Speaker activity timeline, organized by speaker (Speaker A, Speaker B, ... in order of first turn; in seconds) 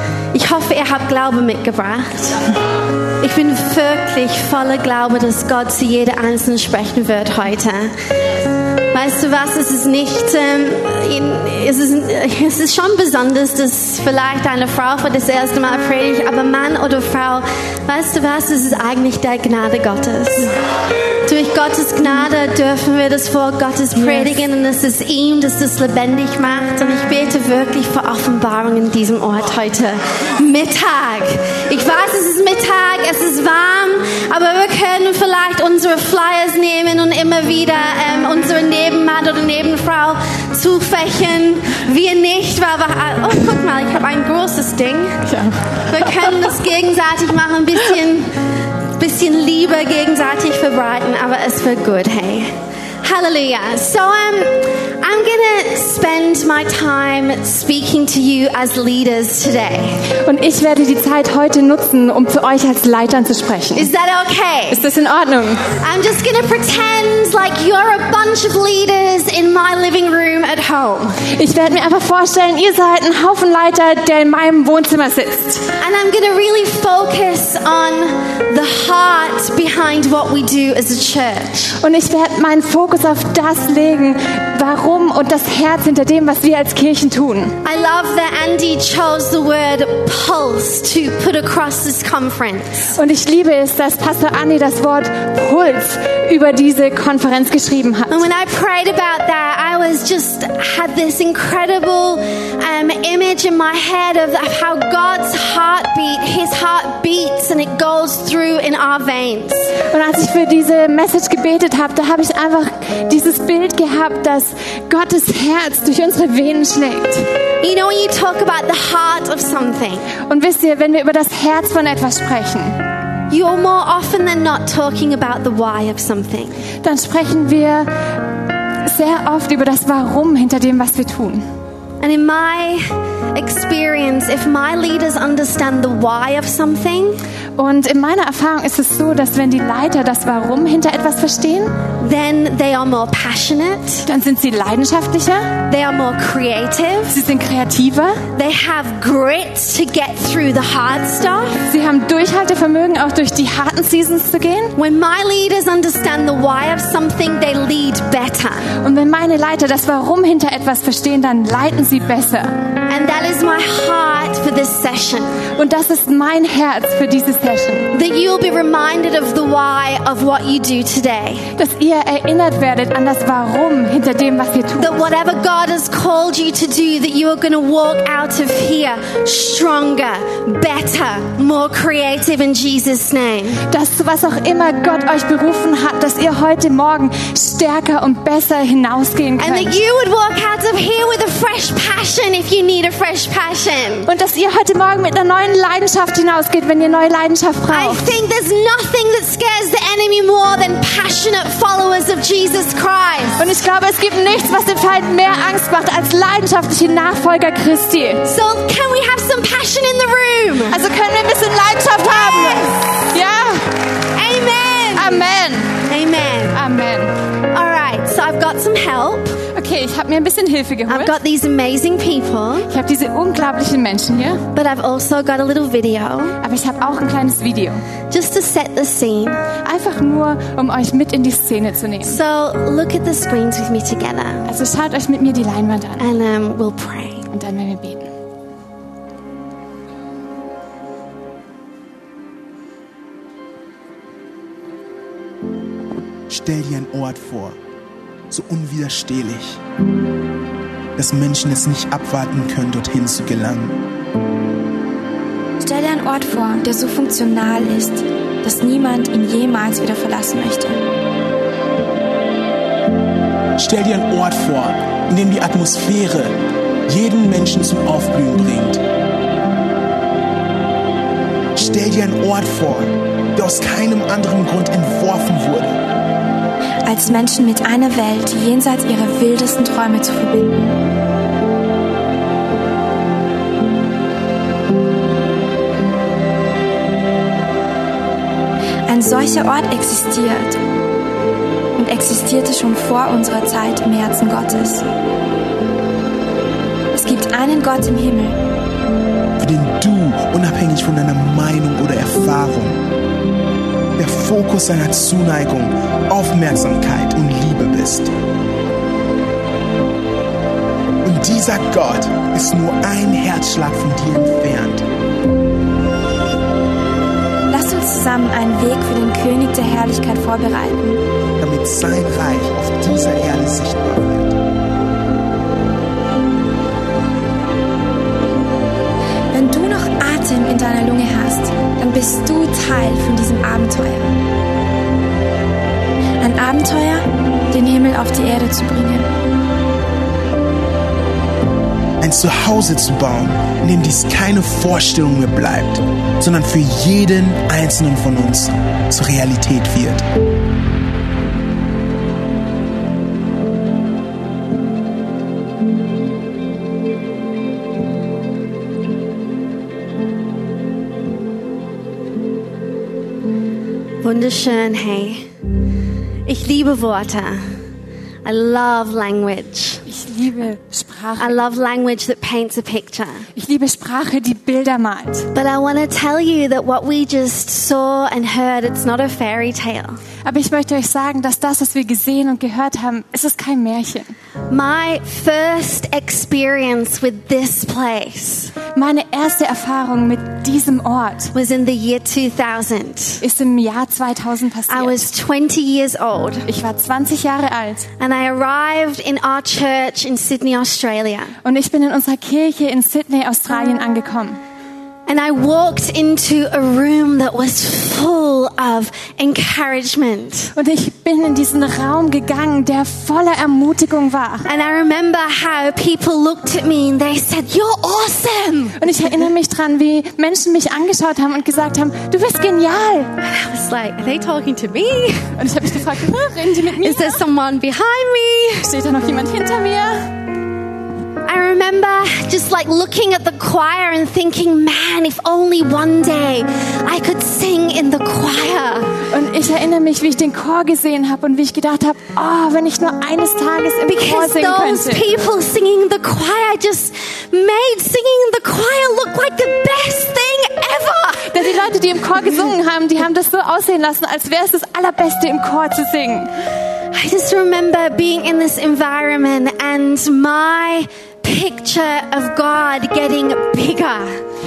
Speaker A: 0.3-2.4, 3.2-7.9, 8.9-20.5, 21.2-45.2, 45.8-48.4, 48.9-60.0, 63.7-64.8, 65.8-71.2, 75.8-81.8, 87.6-92.9, 98.1-109.8, 117.6-120.1, 123.3-126.6, 132.0-137.2, 142.0-144.0, 145.7-147.2, 148.3-151.6, 154.8-158.7, 162.9-165.4, 167.9-171.5, 174.8-183.6, 189.4-194.1, 197.7-203.4, 208.2-210.8, 212.0-213.1, 214.1-215.2, 215.8-216.6, 217.4-219.4, 220.9-222.7, 224.5-226.4, 228.1-229.4, 232.0-234.5, 236.0-237.3, 364.0-365.3, 366.2-367.5, 368.2-369.8, 371.2-373.3, 375.3-380.0, 384.5-388.5, 391.3-393.2, 394.7-396.5, 398.0-401.3, 405.1-410.5, 414.4-418.8, 423.2-425.3, 426.8-428.7, 431.2-439.0, 443.9-451.4, 456.9-464.2
Speaker B: 45.2-46.5, 60.2-63.9, 64.7-65.7, 71.3-75.7, 81.8-87.5, 93.0-98.2, 109.9-117.3, 120.2-122.8, 126.8-131.4, 137.6-141.8, 144.1-145.6, 147.1-148.2, 151.6-154.7, 158.8-162.6, 165.5-167.9, 171.6-175.1, 183.7-189.8, 194.1-198.1, 203.4-208.2, 210.7-213.8, 214.9-215.8, 216.5-217.1, 219.5-221.2, 222.7-224.4, 226.4-227.8, 229.6-232.2, 234.5-236.1, 237.3-238.1, 369.9-371.4, 373.4-375.3, 380.2-384.1, 388.7-391.3, 393.2-395.0, 396.5-397.9, 401.4-404.4, 410.6-414.4, 418.8-423.1, 425.4-427.2, 428.6-430.1, 439.1-445.1, 451.3-456.3
Speaker C: 246.3-247.6, 248.3-249.6, 250.9-253.8, 263.6-268.8, 271.5-275.8, 299.4-302.9, 303.9-308.1, 311.0-314.8, 321.4-324.4, 342.0-350.1
Speaker D: 255.6-260.9, 276.9-280.8, 288.9-290.6, 291.8-294.9, 296.9-298.4, 317.5-321.0, 329.3-334.2, 336.2-339.1